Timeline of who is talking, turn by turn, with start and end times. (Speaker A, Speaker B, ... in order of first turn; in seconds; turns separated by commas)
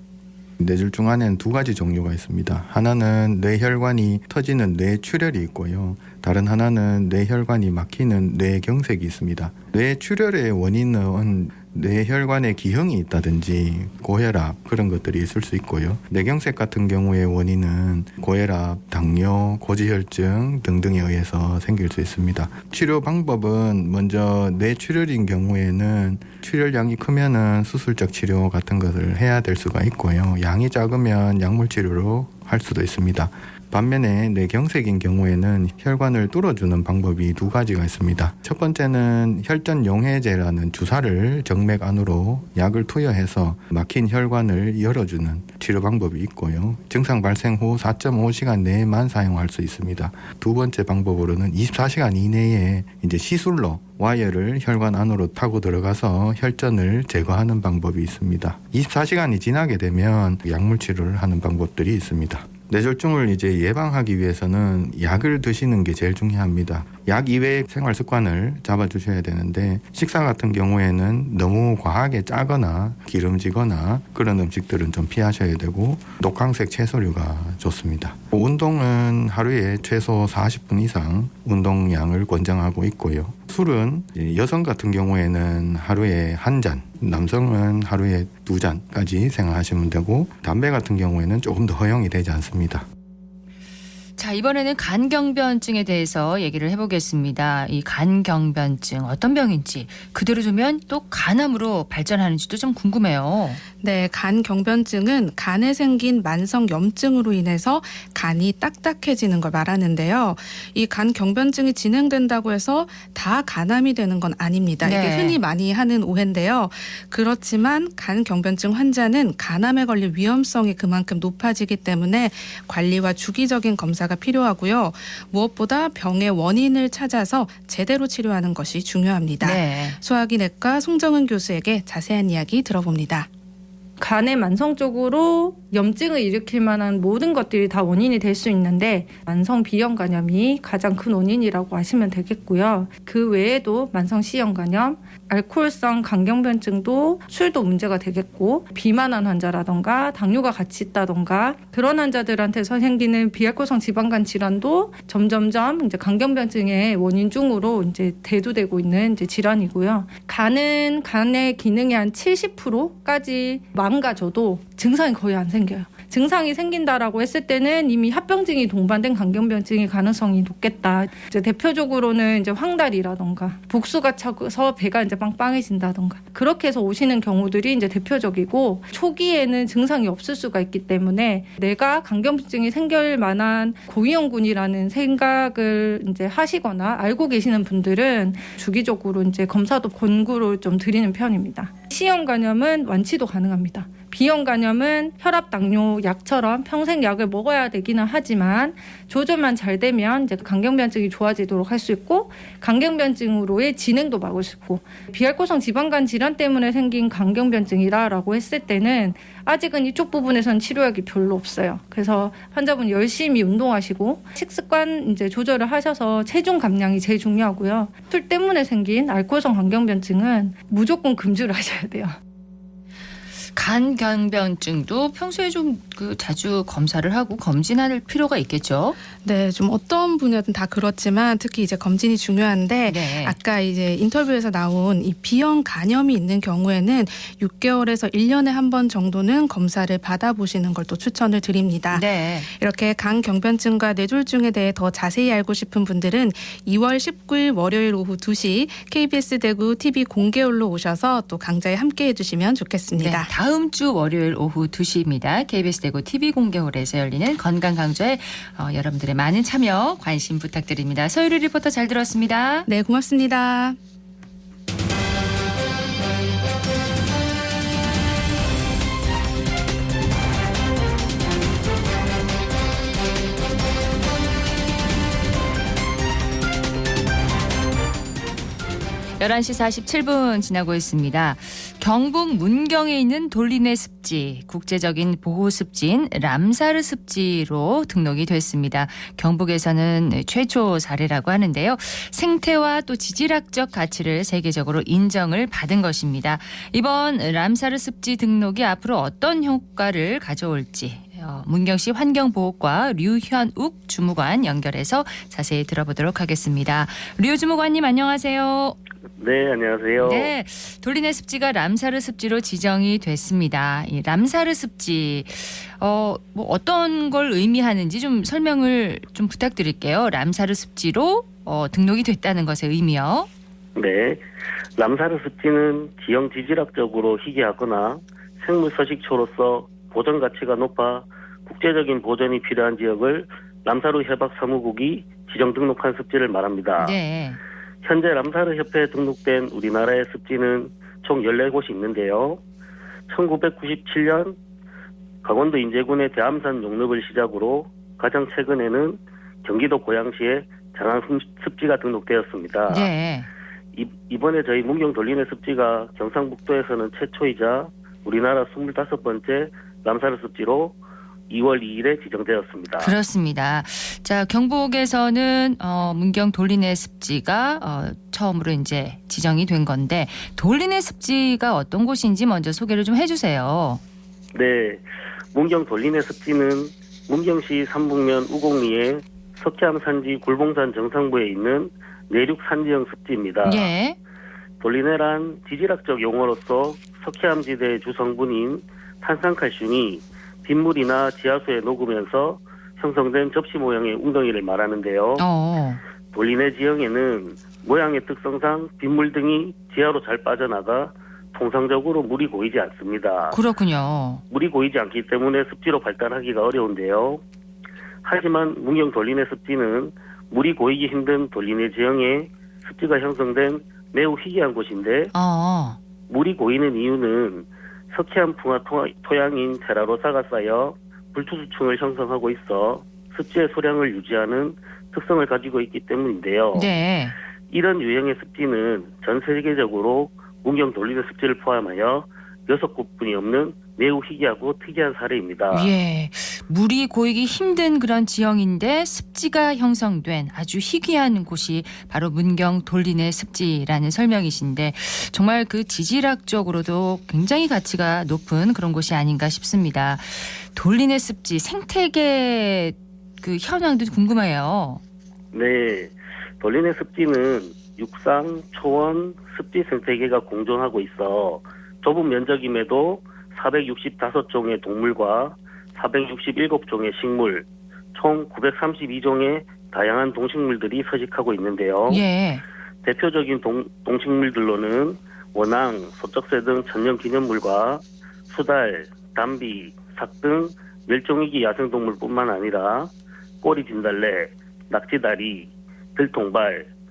Speaker A: 0.6-92.8, Speaker B: 94.2-103.6, Speaker C: 103.8-133.3, Speaker B: 114.8-115.4, Speaker B: 129.4-130.0, Speaker D: 134.0-222.2, Speaker B: 223.5-229.0, Speaker C: 229.2-253.3, Speaker B: 232.9-233.3, Speaker B: 241.9-242.5, Speaker B: 253.0-262.7, Speaker C: 262.7-263.8, Speaker B: 279.2-308.8, Speaker E: 309.2-310.3, Speaker B: 310.0-323.3, Speaker E: 323.8-324.2, Speaker E: 324.8-337.0, Speaker B: 336.8-337.4, Speaker E: 337.8-342.4, Speaker E: 343.1-344.4, Speaker E: 345.2-352.9, Speaker B: 352.7-353.3, Speaker E: 353.7-360.7, Speaker E: 361.3-362.9, Speaker B: 362.8-373.8, Speaker E: 374.3-374.8, Speaker E: 375.3-383.7, Speaker B: 383.4-384.0, Speaker E: 384.6-395.2, Speaker B: 395.2-395.8, Speaker E: 396.1-403.4, Speaker B: 403.3-404.2, Speaker E: 404.3-407.2, Speaker E: 408.0-415.1, Speaker B: 415.1-415.8, Speaker E: 416.1-426.7, Speaker B: 426.5-427.1, Speaker E: 427.5-435.7, Speaker B: 435.5-454.8, Speaker E: 455.3-472.0, Speaker B: 471.9-472.4, Speaker E: 472.8-482.9, Speaker E: 483.4-486.7